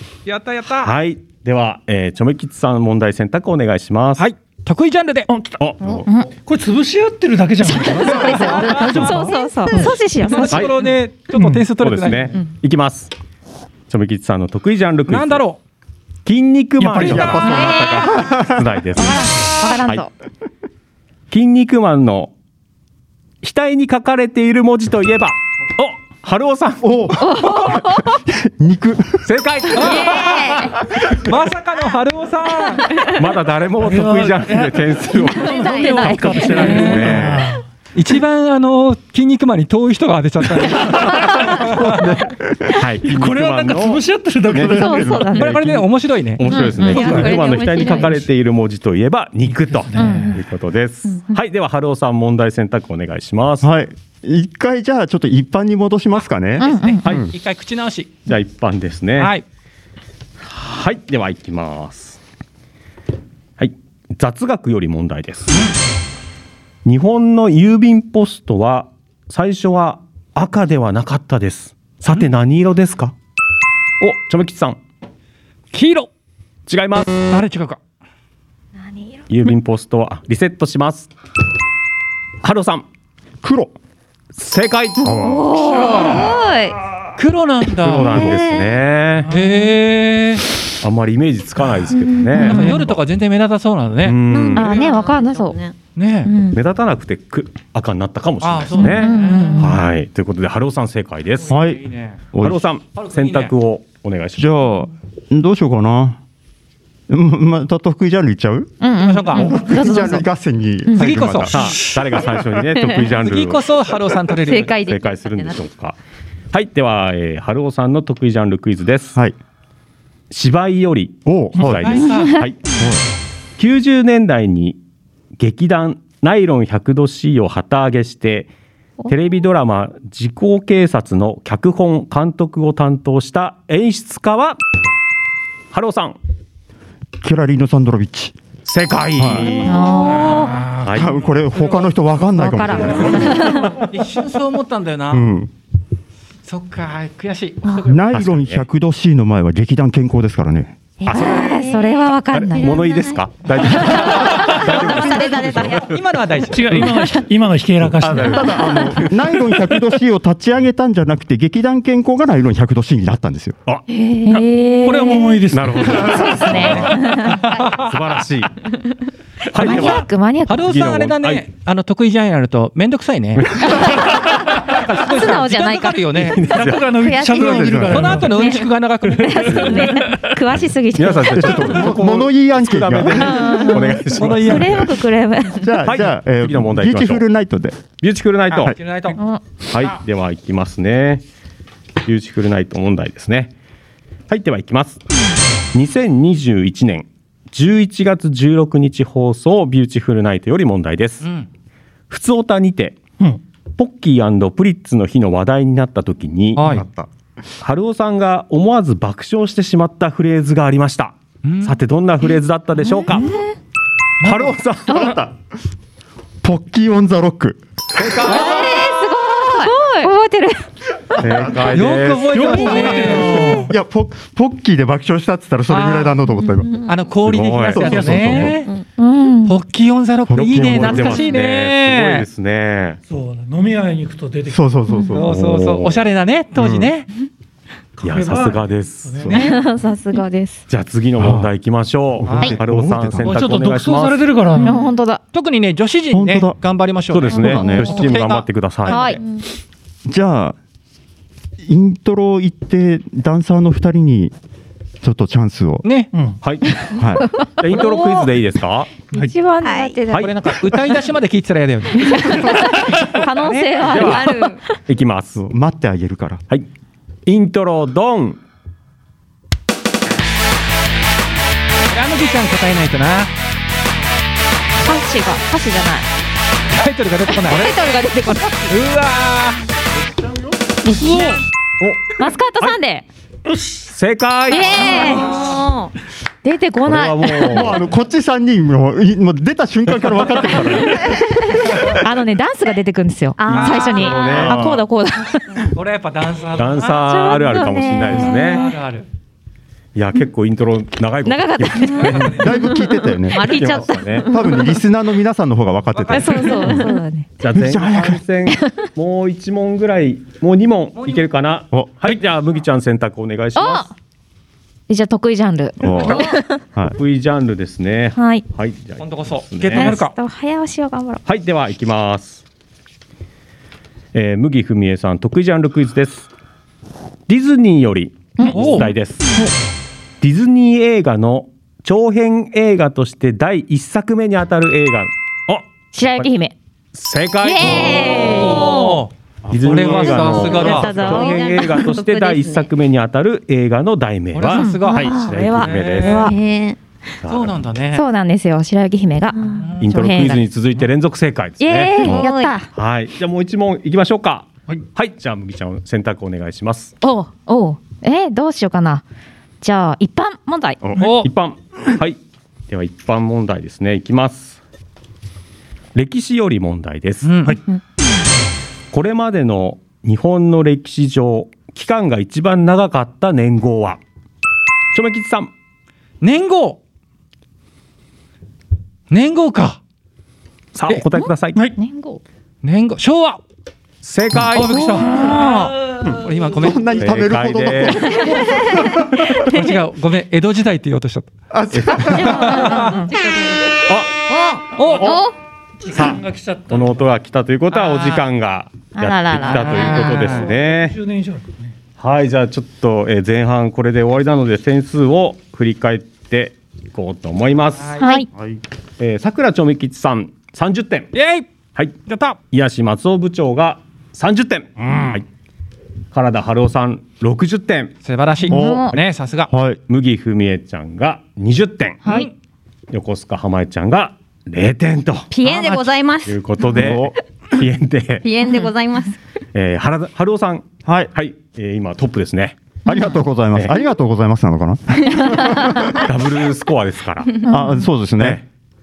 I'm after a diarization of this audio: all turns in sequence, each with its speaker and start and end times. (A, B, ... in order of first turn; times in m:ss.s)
0:00.2-0:00.9 A
0:00.8-0:04.3 B
0:04.2-0:05.3 A
0:05.3-0:05.7 C
0:05.6-0:06.1 B
0:06.0-0:06.3 D
0:06.3-0:09.9 C
0:07.6-0:10.7 D
0:08.8-0:09.2 A
0:10.2-0:12.4 A
0:10.5-0:10.7 B
0:11.3-0:11.7 C
0:11.8-0:13.1 B
0:13.9-0:15.4 B
0:15.1-0:15.6 A
0:16.2-0:19.2 B
0:16.8-0:17.4 C
0:16.9-0:18.7 E
0:17.3-0:18.3 D
0:18.9-0:20.1 D
0:21.3-0:22.3 B
0:23.4-0:27.4 B
0:26.8-0:29.2 E
0:27.2-0:28.2 D
0:29.2-0:30.4 B
0:29.7-0:30.2 A
0:29.7-0:30.8 F
0:31.1-0:32.9 A
0:33.0-0:37.5 B
0:33.8-0:37.6 C
0:35.3-0:36.6 F
0:35.5-0:36.9 D
0:36.5-0:37.2 A
0:37.9-0:41.6 A
0:40.6-0:41.6 C
0:41.8-0:42.7 E
0:41.8-0:45.8 B
0:43.0-0:45.3 C
0:44.6-0:45.6 D
0:44.7-0:45.2 E
0:45.3-0:46.4 A
0:46.4-0:53.7 B
0:46.4-0:48.2 D
0:47.0-0:48.0 F
0:49.5-0:50.3 C
0:49.9-0:50.4 D
0:53.6-0:57.3 E
0:56.6-0:57.2 D
0:56.6-0:58.2 A
0:57.0-0:57.3 B
0:58.2-0:59.3 B
0:59.2-0:59.4 A
1:00.4-1:02.2 B
1:03.6-1:05.7 B
1:06.8-1:13.1 B
1:14.0-1:14.8 B
1:15.7-1:16.1 A
1:16.7-1:17.2 B
1:17.3-1:17.8 A
1:18.8-1:19.2 D
1:19.3-1:21.1 B
1:22.4-1:22.9 B
1:23.4-1:23.7 E
1:24.3-1:25.6 B
1:25.0-1:26.4 D
1:25.6-1:26.8 F
1:27.2-1:28.3 A
1:27.8-1:29.3 B
1:28.2-1:28.6 F
1:29.3-1:30.4 A
1:30.8-1:33.0 B
1:32.4-1:34.2 A
1:32.4-1:32.7 D
1:34.0-1:34.7 B
1:34.3-1:35.7 F
1:34.5-1:35.6 D
1:36.0-1:36.3 A
1:36.2-1:36.6 D
1:36.5-1:41.6 B
1:38.4-1:39.7 A
1:38.8-1:39.8 D
1:41.4-1:42.2 A
1:41.5-1:41.8 E
1:42.3-1:42.6 E
1:42.4-1:44.5 B
1:43.0-1:43.5 A
1:44.4-1:46.2 E
1:47.1-1:48.7 E
1:48.8-1:50.2 D
1:49.0-1:49.5 A
1:49.3-1:52.4 E
1:50.9-1:51.2 D
1:51.0-1:51.6 A
1:51.5-1:53.7 B
1:53.2-1:54.8 A
1:54.3-1:55.6 F
1:54.7-1:56.0 B
1:56.5-1:59.2 B
2:00.3-2:02.6 B
2:01.2-2:02.0 E
2:01.6-2:02.4 A
2:03.6-2:04.8 B
2:05.4-2:08.5 B
2:09.1-2:14.6 B
2:15.7-2:16.2 B
2:17.2-2:18.3 E
2:18.6-2:19.8 B
2:19.2-2:19.6 E
2:19.6-2:20.7 D
2:19.9-2:20.8 A
2:20.8-2:21.1 B
2:20.9-2:23.5 E
2:21.6-2:21.9 C
2:22.3-2:23.8 D
2:22.9-2:23.7 C
2:23.8-2:25.2 A
2:25.1-2:25.5 E
2:26.4-2:28.0 A
2:27.8-2:30.7 E
2:28.1-2:28.6 B
2:31.0-2:31.7 B
2:31.0-2:32.9 D
2:31.1-2:32.0 F
2:32.3-2:36.0 B
2:32.5-2:33.2 F
2:33.8-2:35.9 F
2:35.7-2:36.9 A
2:36.5-2:38.7 C
2:37.8-2:39.0 B
2:38.2-2:43.6 E
2:44.0-2:44.3 F
2:44.1-2:47.6 D
2:44.8-2:46.6 C
2:45.5-2:48.5 B
2:47.4-2:47.8 A
2:49.5-2:50.1 B
2:49.5-2:50.8 D
2:49.6-2:53.8 A
2:50.6-2:51.4 B
2:53.4-2:54.1 B
2:53.8-2:54.5 D
2:54.5-2:56.5 A
2:55.1-2:56.0 D
2:56.1-2:56.9 B
2:56.4-2:58.3 C
2:56.9-2:57.7 F
2:57.2-2:58.3 E
2:57.9-3:00.0 A
2:58.2-3:01.8 D
2:59.3-3:00.2 C
3:00.9-3:04.8 B
3:01.3-3:03.5 E
3:03.1-3:05.8 D
3:04.1-3:04.9 A
3:05.6-3:07.8 E
3:05.8-3:07.2 B
3:08.0-3:08.8 B
3:08.5-3:09.2 A
3:08.5-3:08.8 E
3:09.2-3:09.4 D
3:09.6-3:11.2 B
3:12.0-3:13.5 B
3:14.3-3:15.0 B
3:15.7-3:21.3 B
3:21.2-3:21.5 A
3:22.1-3:23.0 B
3:23.8-3:26.6 B
3:26.6-3:26.8 A
3:26.6-3:27.1 E
3:27.6-3:33.3 B
3:31.4-3:31.8 A
3:33.1-3:33.4 D
3:34.2-3:35.1 B
3:34.9-3:35.4 E
3:34.9-3:35.2 D
3:36.4-3:37.6 E
3:37.9-3:38.8 B
3:38.2-3:40.0 F
3:38.2-3:40.6 D
3:41.2-3:42.9 B
3:41.2-3:41.7 E
3:41.7-3:43.6 A
3:42.3-3:43.6 C
3:42.7-3:46.7 E
3:43.3-3:43.6 D
3:45.7-3:46.1 A
3:46.8-3:48.7 A
3:47.2-3:48.4 B
3:47.7-3:48.6 E
3:47.8-3:48.5 C
3:49.0-3:49.6 D
3:49.4-3:52.3 A
3:50.3-3:51.2 E
3:50.4-3:53.0 B
3:53.1-3:54.6 C
3:54.5-3:55.4 E
3:55.1-3:57.1 A
3:55.2-3:56.0 B
3:56.6-3:56.9 E
3:58.0-3:59.4 C
3:58.0-3:59.3 B
3:59.3-4:00.6 D
4:00.7-4:04.3 B
4:01.2-4:01.5 E
4:02.2-4:03.4 E
4:02.3-4:02.6 A
4:03.2-4:04.8 C
4:04.6-4:05.2 D
4:05.3-4:09.2 A
4:06.1-4:06.6 E
4:07.1-4:09.2 B
4:07.3-4:08.1 E
4:08.8-4:09.4 D
4:10.0-4:10.6 E
4:11.6-4:14.3 E
4:15.0-4:15.8 E
4:15.8-4:16.1 A
4:16.4-4:16.9 B
4:16.8-4:18.3 D
4:16.9-4:17.3 E
4:17.6-4:18.9 B
4:19.1-4:20.9 D
4:19.6-4:20.0 F
4:20.1-4:20.4 B
4:20.1-4:23.8 A
4:22.0-4:24.6 D
4:23.8-4:24.6 F
4:23.9-4:24.3 B
4:24.9-4:25.4 B
4:25.4-4:26.4 E
4:27.2-4:28.4 B
4:31.9-4:33.3 A
4:34.8-4:36.1 D
4:36.7-4:39.6 A
4:37.3-4:38.7 D
4:40.8-4:41.4 D
4:41.8-4:42.7 B
4:42.1-4:43.0 D
4:43.9-4:45.1 B
4:44.5-4:45.5 D
4:44.5-4:45.9 F
4:46.4-4:47.7 D
4:46.8-4:47.8 B
4:47.5-4:51.2 E
4:51.5-4:55.7 D
4:53.4-4:54.4 F
4:53.5-4:54.1 A
4:53.5-4:54.6 B
4:54.3-4:54.8 E
4:55.6-4:57.3 A
4:56.6-4:58.6 B
4:56.9-4:58.7 D
4:57.5-4:58.6 F
4:58.2-4:59.1 A
4:59.9-5:02.3 B
5:01.2-5:03.6 D
5:01.9-5:02.7 A
5:02.1-5:03.6 E
5:03.3-5:04.5 F
5:03.4-5:04.3 B
5:04.2-5:06.9 E
5:04.4-5:04.7 D
5:05.9-5:06.8 A
5:06.1-5:07.3 D
5:07.4-5:13.9 B
5:07.5-5:08.2 E
5:11.0-5:11.3 A
5:13.6-5:13.9 D
5:14.9-5:16.6 D
5:15.8-5:17.0 E
5:17.0-5:20.0 B
5:18.2-5:18.4 D
5:19.0-5:20.2 A
5:19.7-5:21.2 D
5:21.2-5:22.4 B
5:24.1-5:26.3 B
5:27.3-5:29.3 B
5:28.4-5:29.5 D
5:28.5-5:28.9 A
5:30.2-5:36.3 B
5:35.9-5:36.5 D
5:36.9-5:38.8 B
5:37.4-5:39.0 F
5:37.8-5:38.5 D
5:38.1-5:39.1 A
5:39.4-5:40.8 E
5:39.5-5:46.3 B
5:39.6-5:41.0 A
5:40.3-5:41.8 D
5:41.1-5:42.7 F
5:44.3-5:46.3 A
5:44.5-5:46.4 D
5:44.9-5:45.3 F
5:46.0-5:46.8 F
5:47.2-5:47.6 B
5:47.2-5:48.0 A
5:47.9-5:50.4 D
5:49.3-5:49.7 F
5:49.5-5:49.8 A
5:49.8-5:56.9 B
5:51.6-5:52.7 D
5:52.0-5:52.6 F
5:57.0-5:59.0 D
5:59.6-6:00.9 D
6:00.8-6:02.2 B
6:01.0-6:01.3 A
6:01.0-6:01.3 C
6:02.7-6:04.6 B
6:05.9-6:07.3 B
6:07.2-6:07.6 A
6:08.9-6:14.0 B
6:14.9-6:15.5 B
6:16.2-6:16.8 A
6:19.1-6:19.8 A
6:20.7-6:21.6 B
6:21.8-6:22.2 D
6:22.6-6:23.4 A
6:24.0-6:24.9 B
6:24.5-6:26.9 A
6:25.0-6:25.6 D
6:26.0-6:28.9 E
6:27.0-6:28.3 B
6:28.1-6:28.5 D
6:29.3-6:31.3 A
6:31.5-6:32.6 E
6:31.7-6:32.2 B
6:32.1-6:33.0 A
6:32.2-6:33.3 F
6:32.2-6:33.6 D
6:33.8-6:34.1 B
6:34.3-6:35.3 F
6:34.8-6:35.2 A
6:35.0-6:35.3 D
6:35.8-6:37.1 C
6:35.9-6:41.0 B
6:37.7-6:38.3 A
6:38.9-6:40.4 D
6:39.4-6:40.5 A
6:40.4-6:41.6 C
6:42.0-6:48.0 B
6:47.8-6:48.1 A
6:48.0-6:48.3 D
6:48.3-6:48.6 E
6:49.0-6:51.1 B
6:51.1-6:51.4 A
6:52.0-6:52.4 A
6:52.5-6:55.2 B
6:56.1-6:57.9 B
6:58.0-6:59.5 A
6:58.5-6:58.9 D
6:58.5-6:59.8 E
6:59.9-7:02.1 B
7:02.0-7:02.3 D
7:02.0-7:02.3 A
7:02.9-7:05.3 B
7:05.3-7:07.0 F
7:05.5-7:05.8 A
7:06.2-7:08.2 B
7:06.7-7:07.1 E
7:08.2-7:09.2 F
7:09.5-7:12.6 B
7:10.8-7:11.1 E
7:12.8-7:16.0 E
7:15.9-7:17.4 B
7:17.5-7:17.8 D
7:17.5-7:18.4 E
7:18.2-7:18.4 B